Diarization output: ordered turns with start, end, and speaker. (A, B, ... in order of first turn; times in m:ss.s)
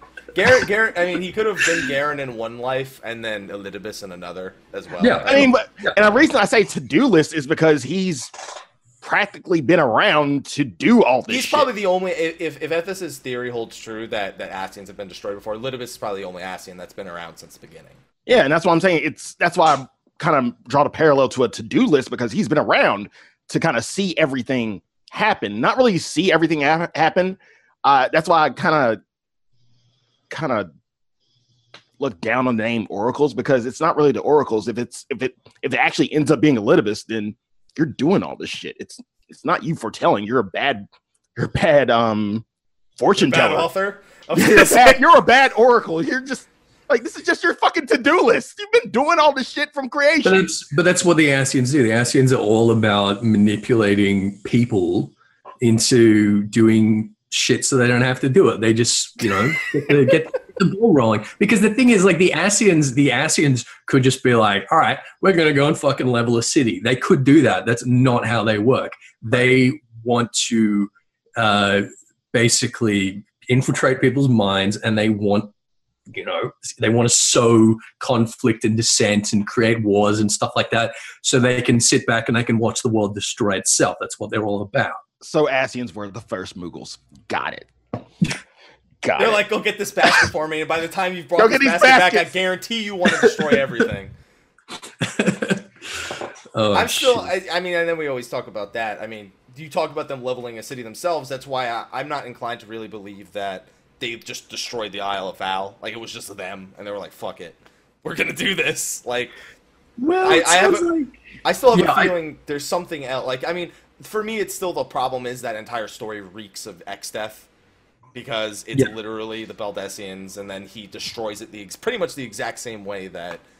0:00.3-0:05.5 A
0:05.0-0:06.0 B
0:05.2-0:08.3 C
0:09.0-0:11.7 C
0:11.3-0:18.0 A
0:18.2-0:29.0 C
0:30.3-0:30.7 C
0:32.0-0:42.4 C
0:43.0-0:43.7 C
0:43.2-0:45.0 A
0:44.3-0:50.5 C
0:50.2-1:15.5 B
1:16.1-1:25.0 B
1:25.2-1:27.7 C
1:29.0-1:29.4 C
1:29.2-1:34.1 A
1:31.4-1:32.3 C
1:35.0-1:37.3 B
1:36.7-1:49.3 A
1:50.0-1:51.2 B
1:50.2-1:50.9 A
1:51.4-1:57.5 A
1:51.7-1:52.1 B
1:58.1-2:03.4 A